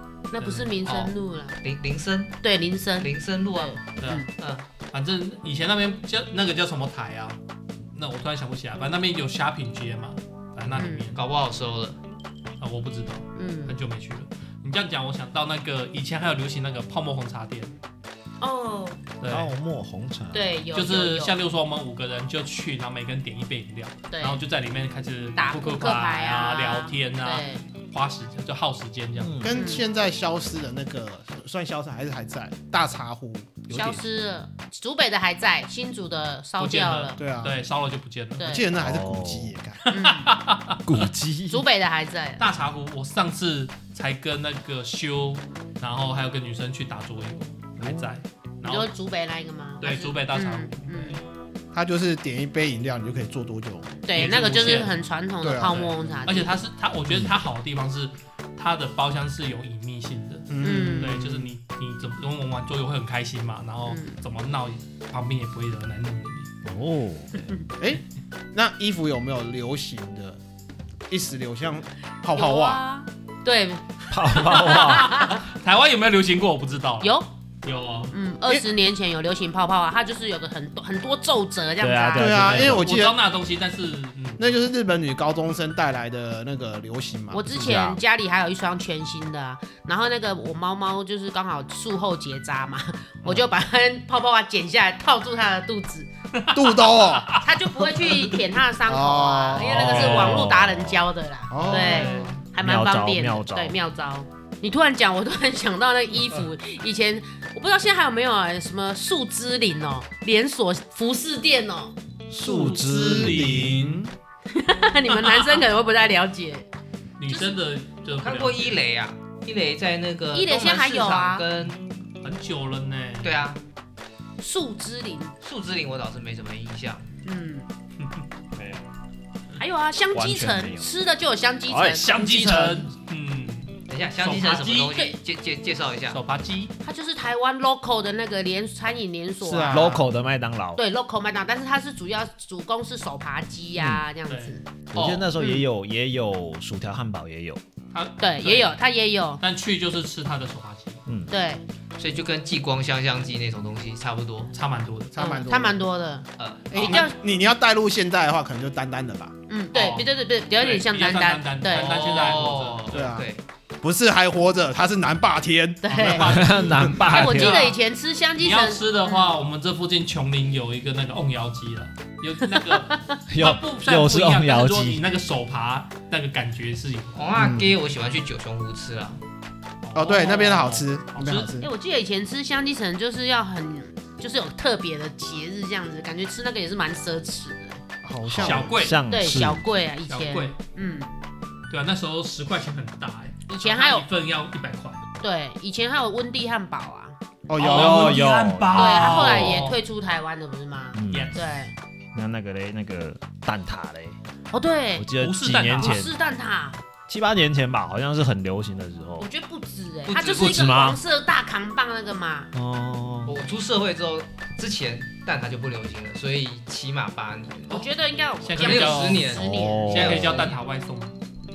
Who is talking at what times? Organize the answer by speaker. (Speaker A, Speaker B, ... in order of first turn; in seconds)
Speaker A: 0.3-1.6, 2.4-4.3, 10.7-11.1, 13.3-13.8, 18.4-19.0, 20.3-21.3, 24.1-24.4, 25.4-27.7, 29.5-29.8, 33.7-37.2, 38.4-38.7, 39.9-40.3, 41.5-42.4, 48.6-51.2, 54.0-56.5, 60.6-61.1, 63.9-64.2, 72.3-75.4, 77.0-77.3, 78.1-82.5, 87.3-96.1, 97.3-111.9, 114.5-116.7, 117.3-117.5, 120.3-121.5, 124.4-125.3, 127.2-127.7, 129.6-132.0, 136.8-140.0, 140.8-144.6, 145.4-145.7, 148.2-149.4, 151.3-151.6, 155.2-157.1, 159.5-162.0, 165.8-166.5, 167.1-169.3, 172.5-173.2, 181.6-187.8, 189.1-191.1, 193.5-194.1, 195.2-197.1, 198.7-201.7, 204.5-205.1, 205.7-206.8, 209.2-212.5, 217.7-220.5
Speaker B: 0.4-0.7, 4.0-4.2, 4.8-7.4, 7.9-11.2, 12.6-17.7, 19.2-19.5, 20.7-29.4, 36.6-38.6, 39.8-40.8, 42.4-48.9, 49.8-51.2, 54.1-55.0, 56.3-66.5, 74.7-77.1, 77.6-78.1, 82.5-84.4, 96.3-97.5, 98.0-98.3, 99.8-100.4, 101.6-102.4, 112.4-114.0, 115.1-115.6, 117.2-118.8, 122.2-123.4, 132.0-135.0, 136.1-136.7, 144.3-144.6, 147.9-148.8, 149.4-151.0, 154.5-155.1, 159.7-163.1, 165.9-167.8, 168.4-177.4, 179.8-181.5, 188.4-189.0, 190.1-190.5, 191.7-195.0, 197.6-199.8, 201.1-201.5, 205.2-206.0, 218.4-219.3, 219.9-221.2
Speaker C: 0.8-2.4, 3.0-4.7, 11.1-12.0, 118.2-121.8, 123.2-123.6, 125.4-127.1, 133.9-136.2, 144.9-145.3, 152.0-154.5, 156.4-157.0, 161.7-163.4, 177.1-179.2, 210.1-210.7, 213.2-217.8, 218.6-219.5, 220.1-220.5
Speaker D: 19.3-20.6, 29.2-29.6, 38.7-39.5, 40.9-41.6, 66.6-67.5, 74.1-75.1, 81.8-82.9, 87.5-88.0, 99.6-101.1, 102.6-103.8, 112.3-113.9, 128.5-128.8, 130.1-130.9, 131.7-132.9, 139.7-140.8, 144.9-147.6, 166.1-167.7, 173.3-175.0, 188.2-189.6, 197.6-199.5, 200.9-201.4, 202.1-204.2, 205.0-206.1, 207.1-209.3, 210.2-211.0, 212.5-213.3, 219.3-220.5
Speaker E: 29.4-34.0, 37.2-37.6, 38.4-39.8, 51.7-54.0, 55.4-56.5, 60.5-61.5, 67.8-70.4, 71.1-72.8, 82.1-83.2, 84.4-87.7, 96.5-97.4, 98.9-100.2, 101.5-102.3, 112.9-114.1, 139.4-140.0, 155.1-155.8, 156.7-159.3, 162.9-163.2, 163.8-166.9, 177.3-177.7, 179.9-181.7, 188.0-188.8, 197.5-198.2